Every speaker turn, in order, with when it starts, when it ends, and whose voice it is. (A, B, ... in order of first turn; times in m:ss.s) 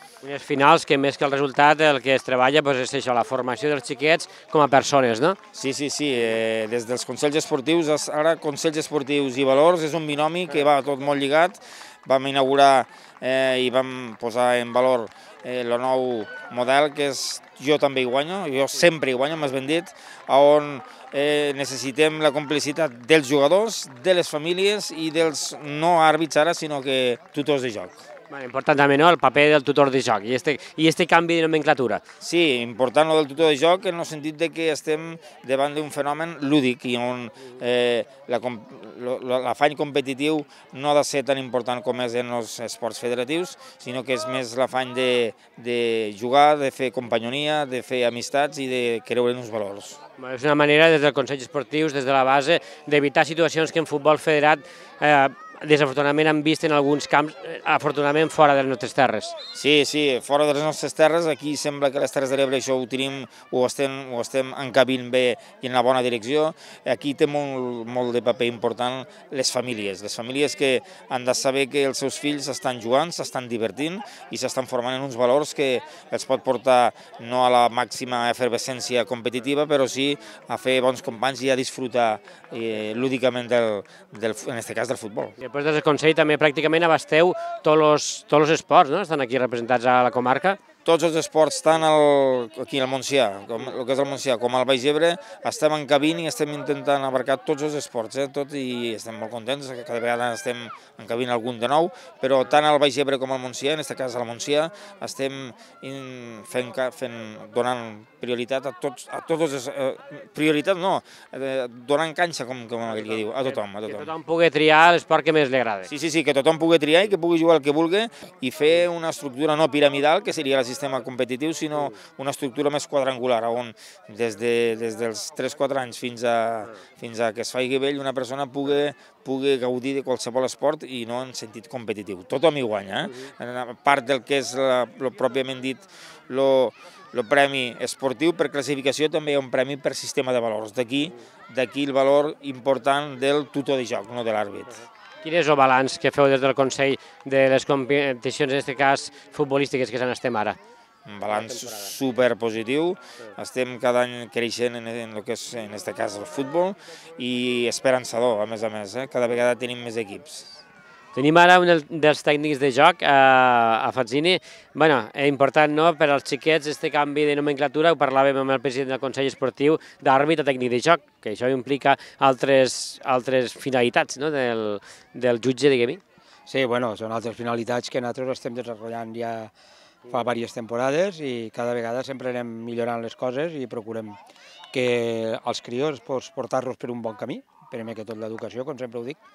0:00.2-0:05.4 A
0:05.5-0:28.0 B
0:28.3-0:32.0 A
0:32.2-0:50.0 B
0:50.2-0:59.4 A
0:59.5-1:25.3 B
1:25.4-1:30.6 A
1:30.8-1:54.1 B
1:53.5-1:55.9 A
1:55.8-2:24.8 B
2:25.2-2:30.6 A
2:31.1-2:40.5 B
2:31.5-2:31.8 A
2:41.1-2:56.0 A
2:56.5-2:59.5 C
3:00.1-3:04.2 C
3:04.7-3:09.2 C